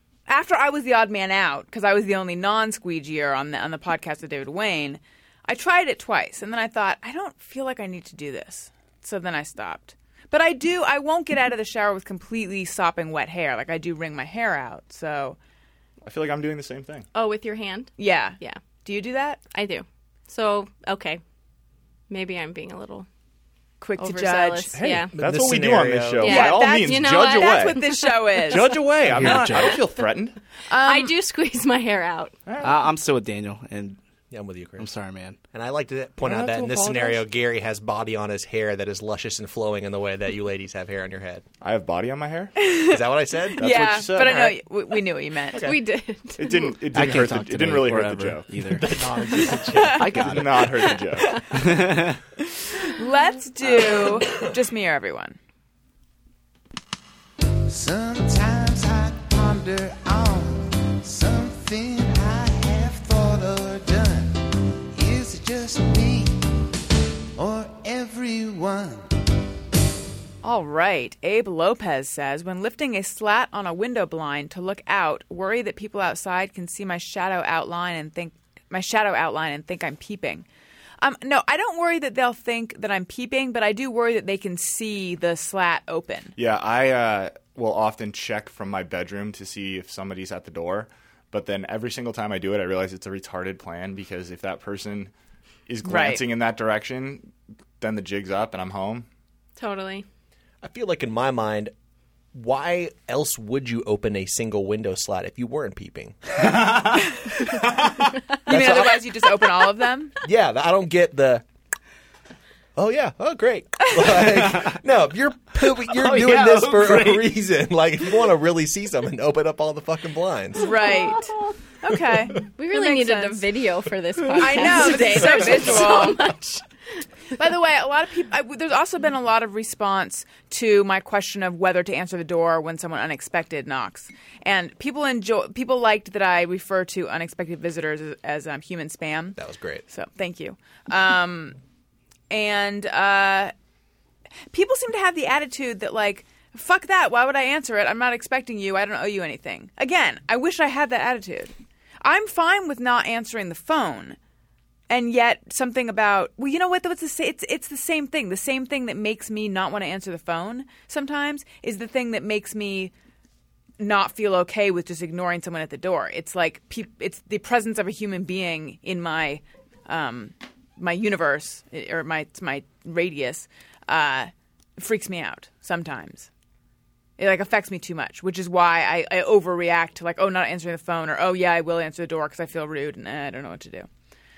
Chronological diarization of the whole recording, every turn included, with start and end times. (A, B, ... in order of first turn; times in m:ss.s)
0:00.3-0:15.4 A
0:16.0-0:17.1 B
0:17.1-0:18.6 C
0:18.0-0:19.4 A
0:19.5-0:21.2 C
0:22.1-0:23.1 C
0:23.8-0:24.7 A
0:24.0-0:25.1 C
0:24.8-0:27.8 B
0:25.0-0:26.3 D
0:26.2-0:28.0 C
0:26.2-0:28.7 A
0:28.4-0:30.4 B
0:29.1-0:29.8 E
0:30.7-0:31.1 A
0:30.8-0:32.3 C
0:32.5-0:32.8 B
0:32.6-0:34.0 E
0:34.3-0:34.9 D
0:34.8-0:35.4 E
0:35.5-0:41.4 D
0:36.2-0:37.2 B
0:41.6-0:42.6 B
0:42.6-0:45.7 A
0:42.9-0:44.5 D
0:43.6-0:44.5 B
0:45.6-0:46.7 C
0:46.4-0:48.6 B
0:46.9-0:48.9 E
0:48.7-0:50.5 D
0:49.3-0:50.1 A
0:50.0-0:50.7 E
0:50.2-0:51.4 B
0:50.8-0:51.4 A
0:51.5-0:52.2 E
0:52.5-0:55.4 A
0:57.7-1:06.4 F
1:07.4-1:09.1 F
1:10.4-1:20.5 A
1:21.0-1:26.4 A
1:26.4-1:35.1 B
1:35.7-1:39.1 B
1:35.8-1:36.2 A
1:39.6-1:40.1 C
1:40.6-1:41.7 D
1:42.3-1:46.6 D
1:46.9-1:47.3 A
1:48.5-1:50.1 A
1:48.5-1:49.5 D
1:50.2-1:51.4 D
1:52.8-2:00.7 D
1:53.9-1:54.2 A
1:54.3-1:54.7 E
1:55.8-1:57.3 E
2:00.6-2:03.4 A
2:00.8-2:01.2 C
2:02.6-2:06.6 C
2:04.4-2:06.2 A
2:07.4-2:19.4 A
2:19.4-2:19.8 D
2:19.9-2:21.6 A
2:22.3-2:23.5 A
2:24.5-2:34.2 A
2:34.9-2:42.9 A
2:43.8-2:56.3 A
2:57.2-3:03.9 A